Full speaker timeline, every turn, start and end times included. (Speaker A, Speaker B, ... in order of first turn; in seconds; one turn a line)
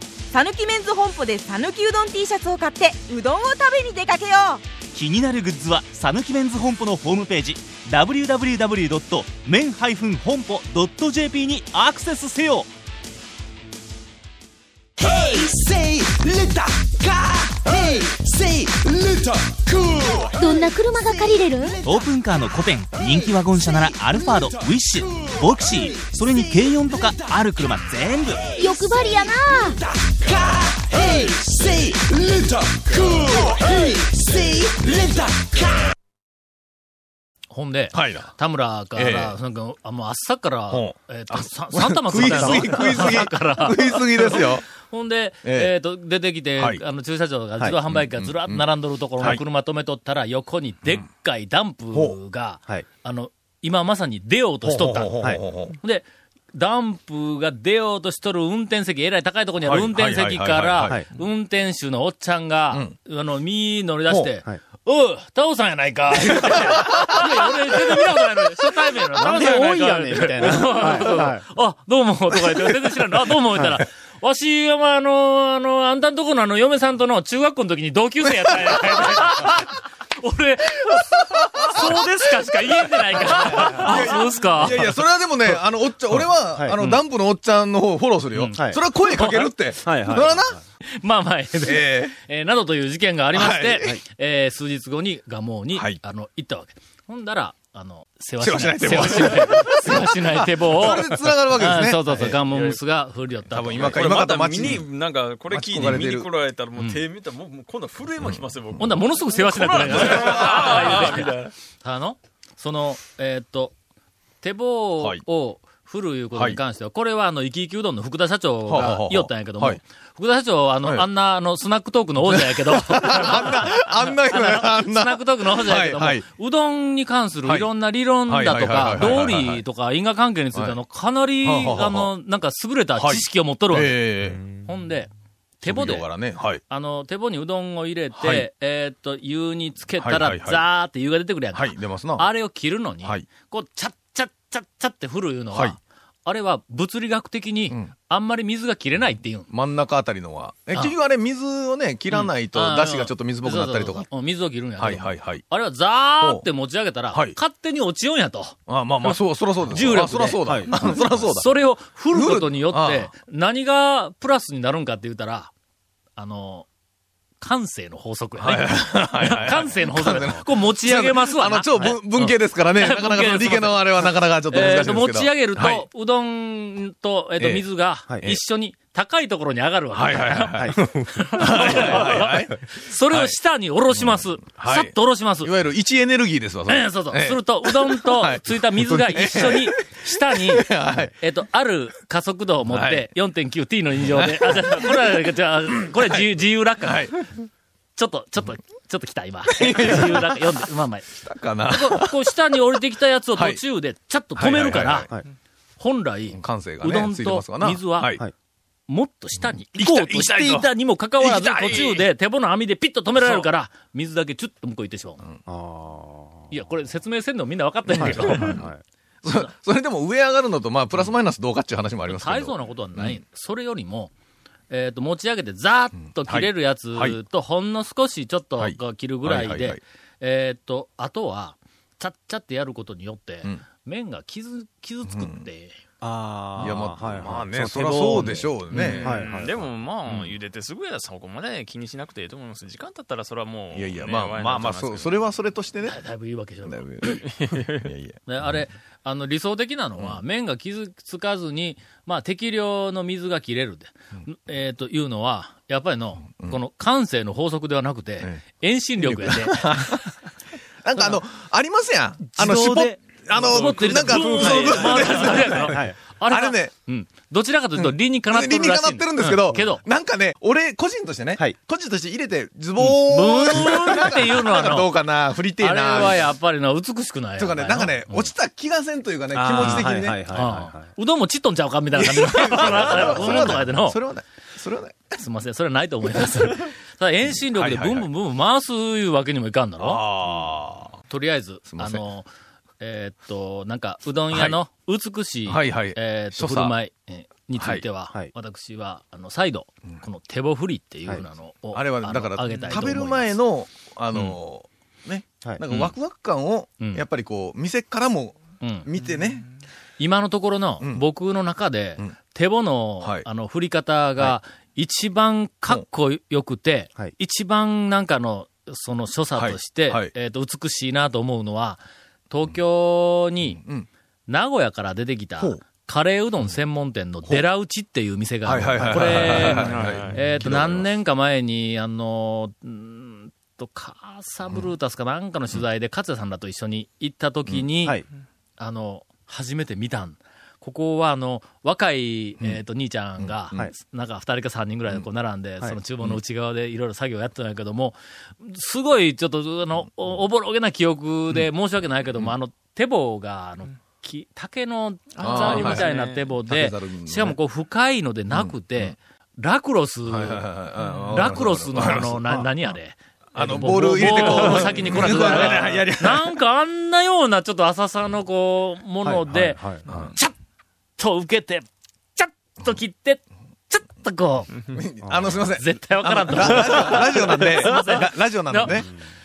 Speaker A: 0.3-4.6
Speaker B: 4.9-12.7
Speaker C: 20.3-21.8
Speaker B: 21.8-28.4
Speaker C: 28.5-29.8
Speaker D: 37.5-55.1
Speaker E: 37.9-38.3
Speaker E: 38.9-39.3
Speaker E: 40.7-44.6
Speaker E: 45.4-45.7
Speaker E: 47.9-48.6
Speaker E: 54.6-55.8
Speaker D: 55.8-84.9
Speaker E: 59.6-61.0
Speaker E: 66.2-67.3
Speaker F: 69.1-71.4
Speaker E: 78.5-79.3
Speaker E: 81.4-82.0
Speaker E: 83.0-90.6
Speaker D: 88.3-89.5
Speaker F: 88.5-88.8
Speaker F: 89.8-90.6
Speaker D: 90.9-104.1
Speaker E: 91.6-92.2
Speaker E: 93.3-94.0
Speaker E: 95.7-96.0
Speaker E: 98.4-102.4
Speaker G: 102.5-102.8
Speaker E: 103.5-104.9
Speaker G: 103.7-111.5
Speaker E: 105.5-106.3
Speaker E: 108.2-108.8
Speaker D: 108.8-113.7
Speaker E: 109.7-111.1
Speaker D: 114.4-135.1
Speaker E: 116.3-116.6
Speaker E: 118.7-119.8
Speaker E: 122.2-126.2
Speaker E: 128.2-129.6
Speaker E: 131.4-132.1
Speaker E: 133.0-134.6
Speaker D: 135.6-136.1
Speaker E: 135.6-136.6
Speaker D: 136.7-149.5
Speaker E: 138.1-138.5
Speaker E: 140.0-140.6
Speaker E: 141.5-142.3
Speaker E: 149.5-154.1
Speaker D: 152.1-165.5
Speaker E: 154.8-155.4
Speaker E: 158.7-161.5
Speaker F: 160.4-161.0
Speaker E: 162.1-163.1
Speaker D: 166.2-166.7
Speaker D: 167.4-185.5
Speaker E: 168.4-175.8
Speaker E: 177.4-177.7
Speaker E: 179.9-183.3
Speaker E: 183.9-191.1
Speaker D: 186.7-197.2
Speaker E: 192.7-193.1
Speaker E: 194.0-195.0
Speaker E: 195.9-196.2
Speaker E: 196.8-197.2
Speaker D: 197.9-201.1
Speaker E: 199.5-200.5
Speaker E: 201.1-202.3
Speaker D: 201.7-205.1
Speaker E: 203.3-203.6
Speaker E: 204.3-205.2
Speaker D: 205.8-208.2
Speaker E: 206.3-208.2
Speaker D: 208.9-215.2
Speaker E: 209.7-212.0
Speaker E: 213.2-213.5
Speaker F: 215.4-216.6
Speaker D: 216.5-218.6
Speaker E: 217.9-218.7
Speaker F: 218.0-218.8
Speaker E: 219.2-223.2
Speaker D: 222.1-224.1
Speaker D: 224.7-235.8
Speaker E: 226.1-227.2
Speaker E: 228.6-229.8
Speaker E: 235.1-235.4
Speaker F: 236.0-239.6
Speaker E: 236.6-239.3
Speaker D: 238.7-239.0
Speaker G: 238.8-245.2
Speaker E: 243.7-246.0
Speaker D: 245.8-247.2
Speaker E: 246.6-248.2
Speaker G: 247.2-247.9
Speaker D: 248.3-259.9
Speaker E: 259.0-260.1
Speaker E: 260.8-266.7
Speaker F: 262.4-263.0
Speaker D: 263.3-269.8
Speaker G: 264.5-264.9
Speaker F: 265.6-266.0
Speaker E: 267.8-276.2
Speaker D: 272.8-274.9
Speaker D: 275.6-278.3
Speaker E: 277.4-280.2
Speaker F: 279.4-280.9
Speaker D: 279.4-284.0
Speaker E: 281.9-285.1
Speaker D: 285.1-290.0
Speaker E: 287.3-288.1
Speaker E: 289.8-290.9
Speaker D: 291.1-292.3
Speaker E: 291.7-292.0
Speaker D: 292.8-303.4
Speaker E: 294.3-294.6
Speaker E: 295.5-296.7
Speaker E: 297.6-297.8
Speaker E: 301.7-309.5
Speaker D: 305.7-305.9
Speaker D: 308.6-308.9
Speaker D: 310.0-323.6
Speaker E: 310.8-311.1
Speaker E: 319.4-320.1
Speaker E: 323.5-323.9
Speaker D: 324.3-338.0
Speaker E: 328.4-330.9
Speaker G: 329.3-330.2
Speaker D: 338.6-360.4
Speaker E: 343.2-343.7
Speaker G: 355.1-356.2
Speaker E: 355.2-355.9
Speaker E: 356.4-357.4
Speaker E: 358.3-358.9
Speaker E: 360.1-362.4
Speaker D: 361.1-370.3
Speaker E: 363.3-366.3
Speaker F: 369.0-369.8
Speaker E: 369.9-370.1
Speaker D: 371.0-374.5
Speaker E: 374.7-378.9
Speaker F: 375.0-375.4
Speaker D: 375.5-378.8